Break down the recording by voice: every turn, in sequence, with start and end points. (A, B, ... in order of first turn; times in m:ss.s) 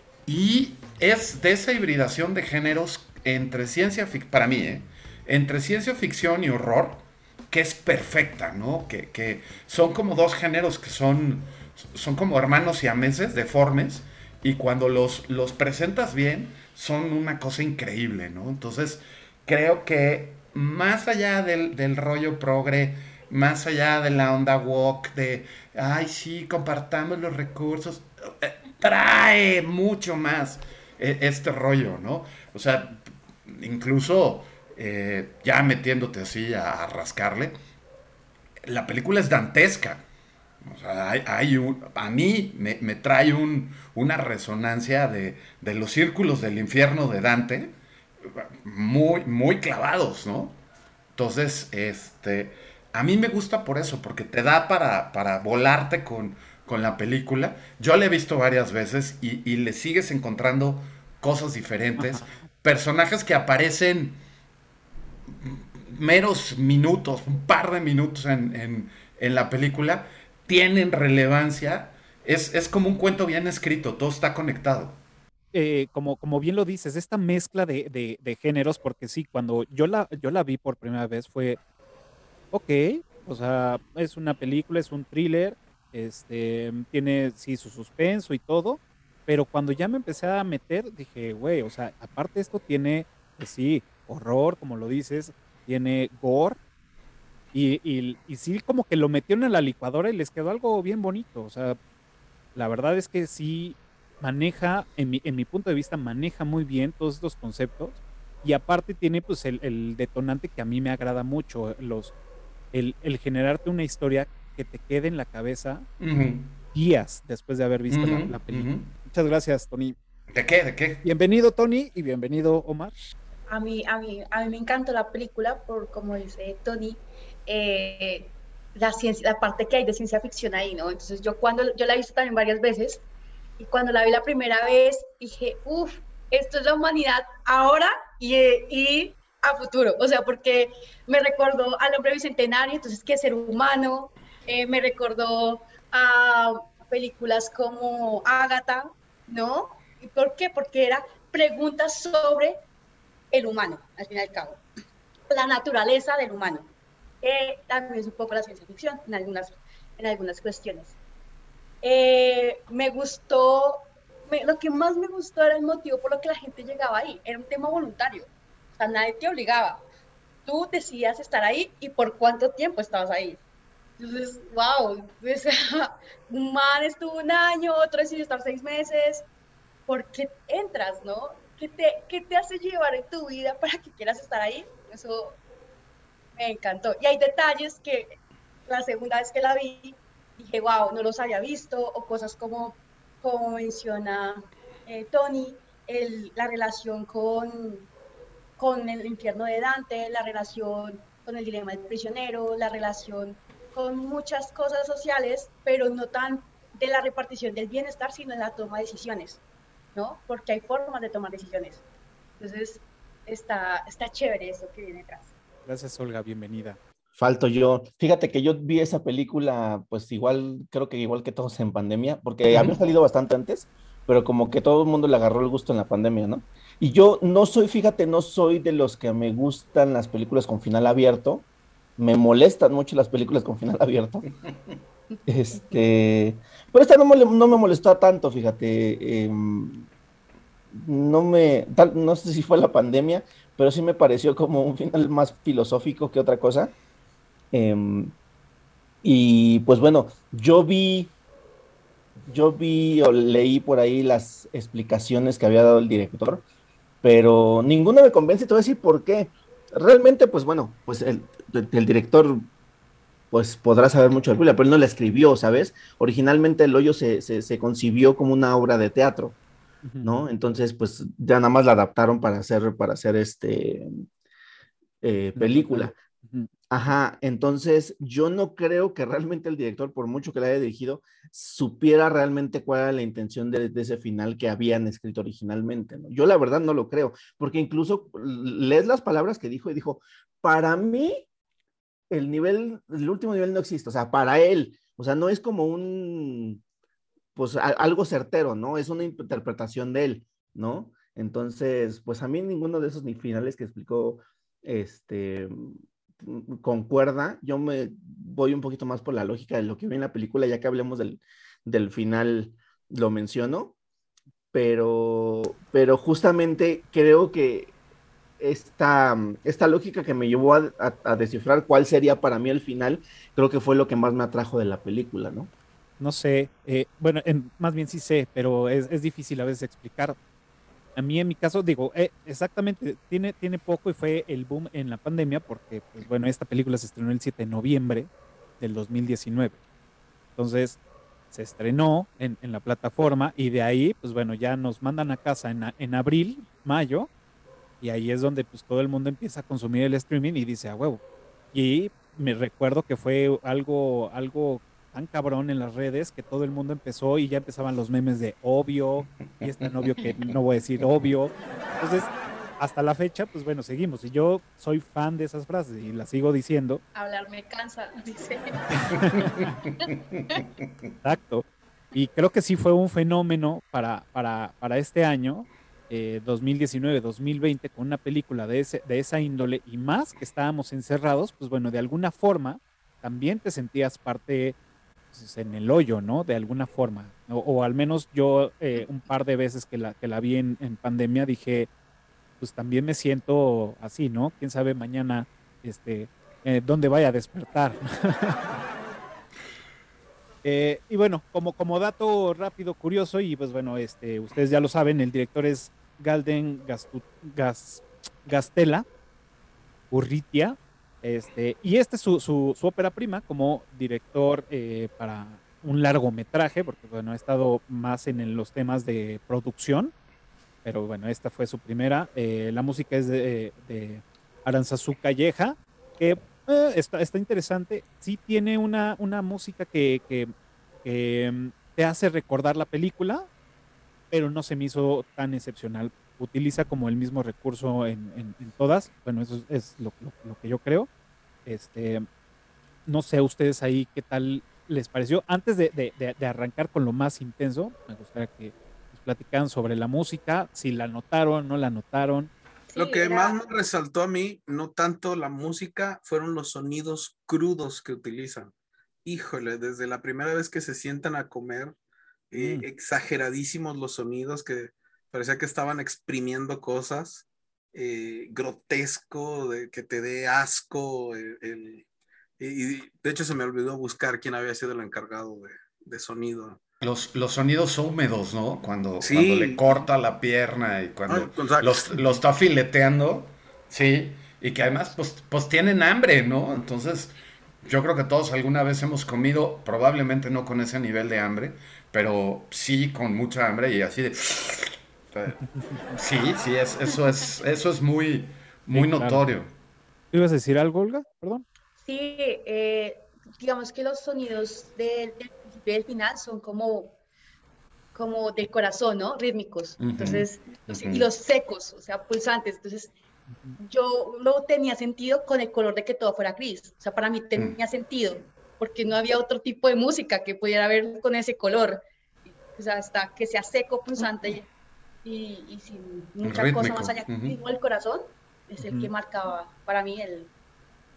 0:00.3-0:37.6 A
0:38.7-0:40.0 A
0:40.6-0:47.7 A
0:48.2-0:50.6 A
0:51.2-1:04.2 A
1:02.0-1:02.4 B
1:05.3-1:15.0 A
1:15.5-1:21.6 B
1:22.5-1:36.6 B
1:37.5-1:41.8 B
1:42.6-1:52.1 B
1:52.7-1:55.9 B
1:56.0-1:56.6 A
1:56.7-2:00.0 B
1:57.9-1:58.9 A
2:00.3-2:01.0 A
2:01.0-2:03.0 B
2:03.5-2:13.0 C
2:13.6-2:32.6 C
2:33.3-2:34.6 C
2:35.3-2:36.7 C
2:37.2-2:41.0 C
2:41.8-2:49.8 C
2:50.4-2:53.4 C
2:54.0-2:59.2 C
2:59.9-3:05.4 C
3:06.4-3:17.9 C
3:18.6-3:29.4 C
3:30.0-3:31.8 C
3:32.4-3:35.3 C
3:35.7-3:36.8 B
3:37.2-3:51.4 D
3:52.0-3:54.2 D
3:55.3-3:59.9 D
4:00.7-4:06.7 D
4:07.5-4:08.1 D
4:09.0-4:11.1 D
4:12.3-4:16.4 D
4:17.0-4:22.5 D
4:23.3-4:29.4 D
4:29.8-4:30.2 B
4:30.0-4:33.9 D
4:35.0-4:36.0 D
4:35.4-4:36.5 B
4:36.7-4:51.2 D
4:52.1-4:56.6 D
4:57.4-5:13.8 D
5:14.5-5:17.7 D
5:18.4-5:25.5 D
5:26.0-5:30.2 B
5:31.0-5:39.6 B
5:40.4-5:40.8 B
5:41.3-5:47.1 B
5:47.8-5:51.0 B
5:51.5-6:06.8 B
6:07.0-6:09.0 C
6:09.0-6:09.5 B
6:09.1-6:10.4 A
6:09.8-6:10.4 C
6:11.0-6:24.6 B
6:25.1-6:31.7 B
6:32.4-6:38.6 B
6:40.4-6:48.9 B
6:49.9-6:59.9 B
7:00.6-7:10.3 B
7:10.8-7:13.3 B
7:14.1-7:20.9 B
7:21.5-7:22.1 B
7:22.9-7:32.3 B
7:32.7-7:33.4 C
7:32.7-7:38.5 E
7:39.0-7:41.8 E
7:42.3-7:51.8 E
7:42.3-7:42.7 B
7:52.4-7:56.6 E
7:56.8-8:07.1 A
7:59.0-7:59.8 E
8:01.1-8:01.9 E
8:07.6-8:19.5 A
8:15.4-8:15.8 B
8:18.7-8:19.2 B
8:20.1-8:21.4 B
8:21.8-8:27.0 C
8:28.0-8:32.9 C
8:29.8-8:31.1 A
8:33.3-8:33.6 B
8:33.6-8:44.5 C
8:45.0-8:50.3 C
8:46.2-8:47.4 A
8:48.6-8:48.9 B